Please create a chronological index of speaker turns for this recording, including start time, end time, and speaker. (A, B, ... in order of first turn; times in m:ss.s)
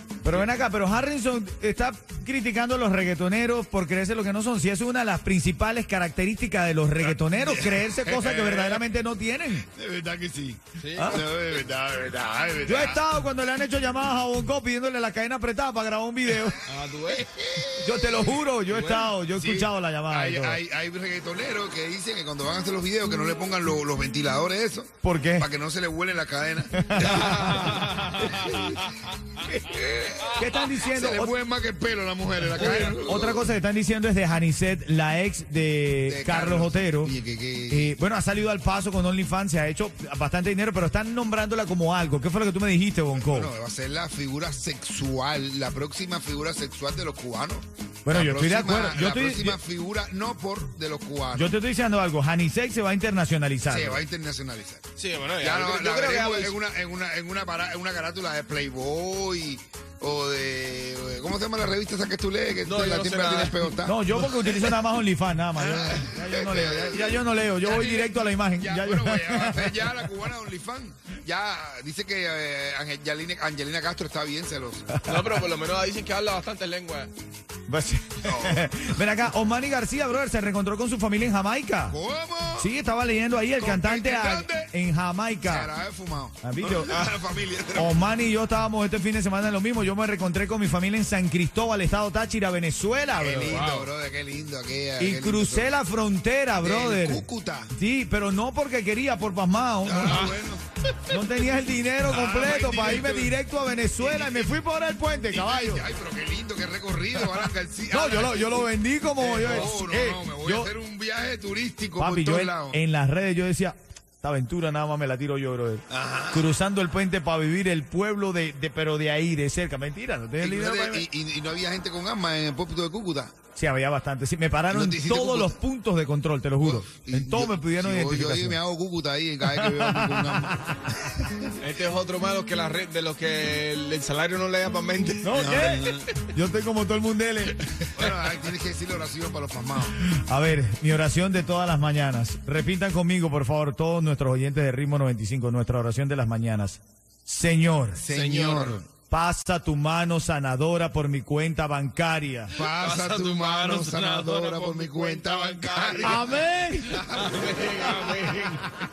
0:00.2-0:09.6 A
0:07.4-0:08.8 B
0:09.7-0:13.0 B
0:10.8-0:11.2 C
0:12.7-0:16.6 A
0:16.7-0:17.3 C
0:17.1-0:18.4 B
0:17.8-0:20.6 A
0:18.7-0:19.1 C
0:19.4-0:33.5 B
0:25.0-0:25.5 A
0:26.7-0:27.8 A
0:27.5-0:28.1 C
0:30.4-0:31.3 A
0:32.6-0:37.1 A
0:36.1-0:38.0 B
0:37.7-0:43.5 A
0:43.2-0:51.5 B
0:48.0-0:49.6 A
0:51.3-0:54.0 A
0:53.7-0:54.8 B
0:55.0-0:56.5 C
0:55.4-1:04.0 B
1:02.6-1:03.8 C
1:03.8-1:10.1 A
1:05.8-1:14.9 B
1:15.0-1:17.1 C
1:17.7-1:22.0 A
1:18.2-1:18.9 B
1:21.9-1:22.7 B
1:22.6-1:25.7 A
1:23.6-1:24.7 B
1:25.4-1:27.9 B
1:26.4-1:26.9 A
1:27.8-1:33.7 A
1:33.2-1:35.7 B
1:33.4-1:33.9 C
1:35.0-1:40.3 A
1:36.6-1:37.7 B
1:39.8-1:40.6 B
1:41.1-1:45.8 A
1:42.1-1:43.3 B
1:44.0-1:44.6 B
1:45.3-1:52.8 B
1:47.9-1:50.7 A
1:52.0-2:01.0 A
1:55.9-1:56.5 B
2:00.4-2:03.3 B
2:03.6-2:08.6 A
2:04.7-2:05.5 B
2:06.6-2:10.6 B
2:09.5-2:10.8 A
2:11.1-2:11.4 B
2:11.6-2:15.6 C
2:15.2-2:17.6 A
2:15.3-2:16.1 B
2:18.0-2:19.9 B
2:20.1-2:28.0 A
2:28.0-2:28.9 B
2:28.0-2:28.8 C
2:29.1-2:32.5 A
2:32.5-2:36.2 B
2:32.6-2:38.7 C
2:36.0-2:37.0 A
2:36.9-2:37.6 B